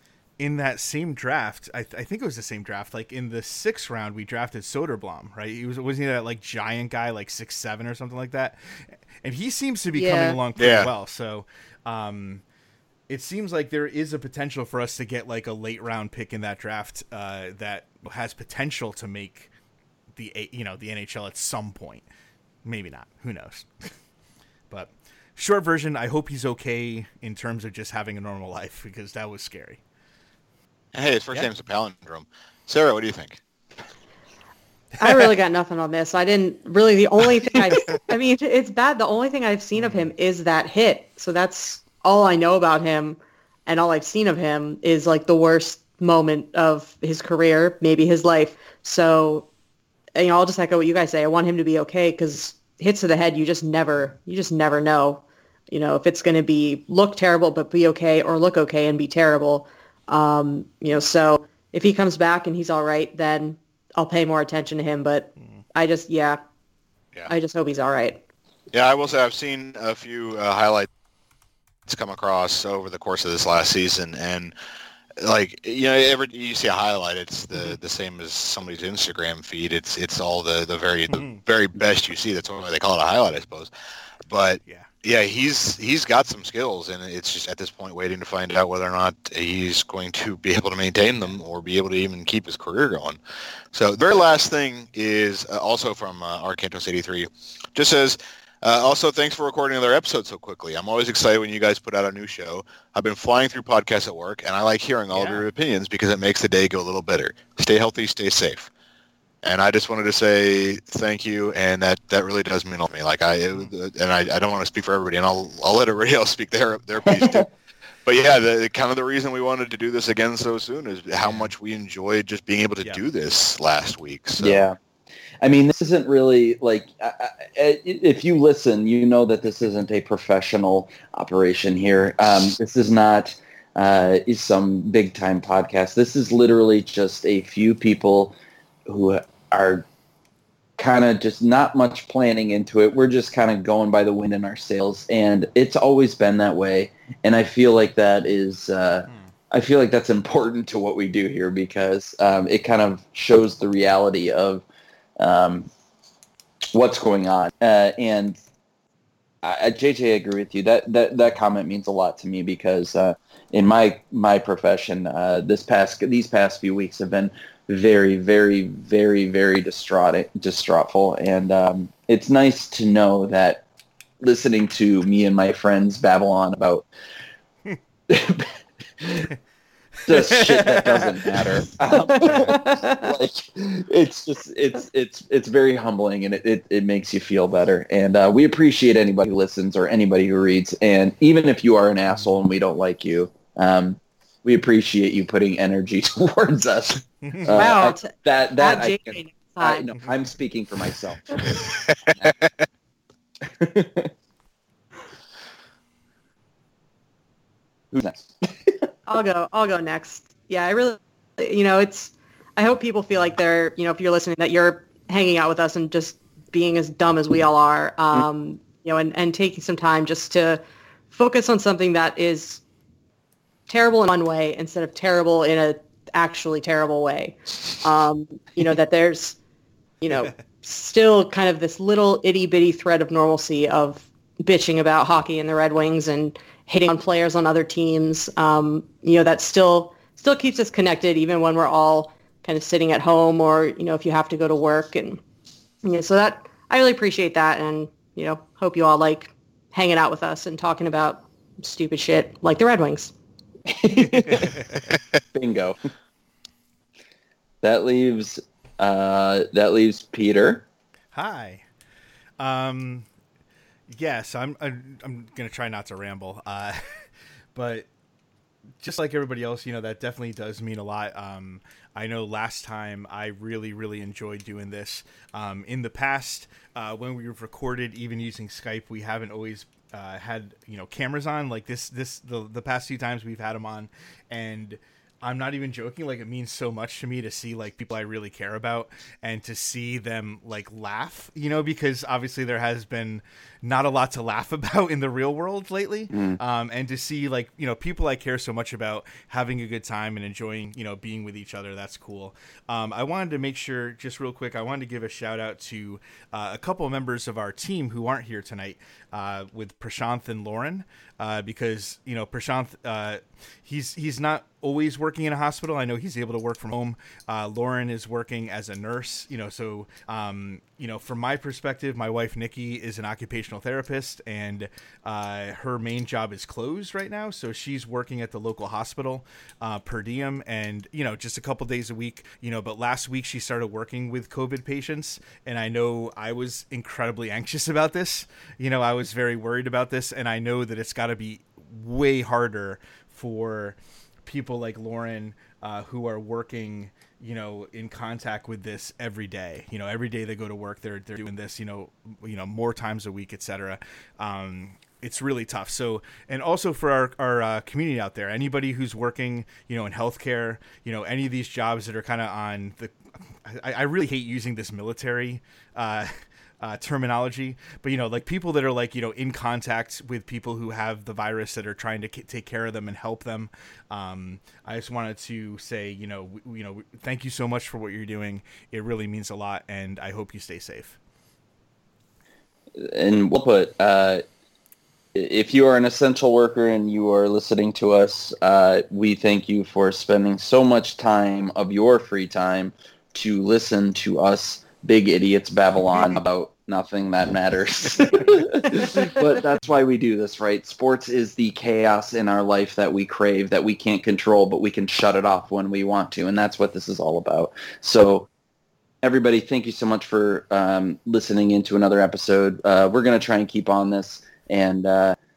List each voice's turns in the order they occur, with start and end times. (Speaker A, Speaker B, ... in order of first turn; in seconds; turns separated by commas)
Speaker A: 0.4-12.4, Speaker B: 9.9-10.4, Speaker C: 10.6-10.9, Speaker A: 13.1-19.5, Speaker A: 20.2-22.1, Speaker A: 22.6-23.9, Speaker A: 24.7-29.8, Speaker C: 30.9-33.4, Speaker B: 35.0-49.5, Speaker A: 39.8-40.1, Speaker B: 50.2-66.4, Speaker A: 65.4-65.6, Speaker B: 67.3-68.2, Speaker C: 68.7-70.9, Speaker C: 71.9-74.5, Speaker C: 75.2-83.7, Speaker A: 77.5-77.8, Speaker A: 81.1-81.4, Speaker C: 84.3-93.2, Speaker C: 93.7-108.7, Speaker A: 105.1-105.5, Speaker C: 109.4-117.5, Speaker D: 117.1-117.4, Speaker C: 118.0-124.7, Speaker A: 121.2-121.5, Speaker D: 124.4-124.8, Speaker D: 125.4-139.8, Speaker D: 140.8-154.7, Speaker D: 155.2-155.7, Speaker D: 156.7-158.4, Speaker D: 159.4-173.6, Speaker D: 174.2-176.9, Speaker D: 178.1-179.3, Speaker D: 180.1-201.4, Speaker A: 180.1-181.5, Speaker B: 182.0-183.1, Speaker A: 197.2-197.6, Speaker B: 197.5-199.8, Speaker D: 202.1-202.4, Speaker D: 203.4-204.1, Speaker D: 207.9-208.9, Speaker B: 209.1-222.6, Speaker B: 223.7-229.4, Speaker B: 230.0-245.2, Speaker B: 245.8-253.1, Speaker D: 253.7-254.6, Speaker A: 254.0-254.9, Speaker D: 255.3-255.8, Speaker D: 257.6-260.6, Speaker A: 261.1-261.6, Speaker A: 262.4-263.1, Speaker A: 263.9-267.9, Speaker A: 268.8-362.9, Speaker D: 296.1-296.4, Speaker A: 363.4-381.0, Speaker D: 382.8-384.2, Speaker D: 385.1-408.3, Speaker D: 409.0-415.2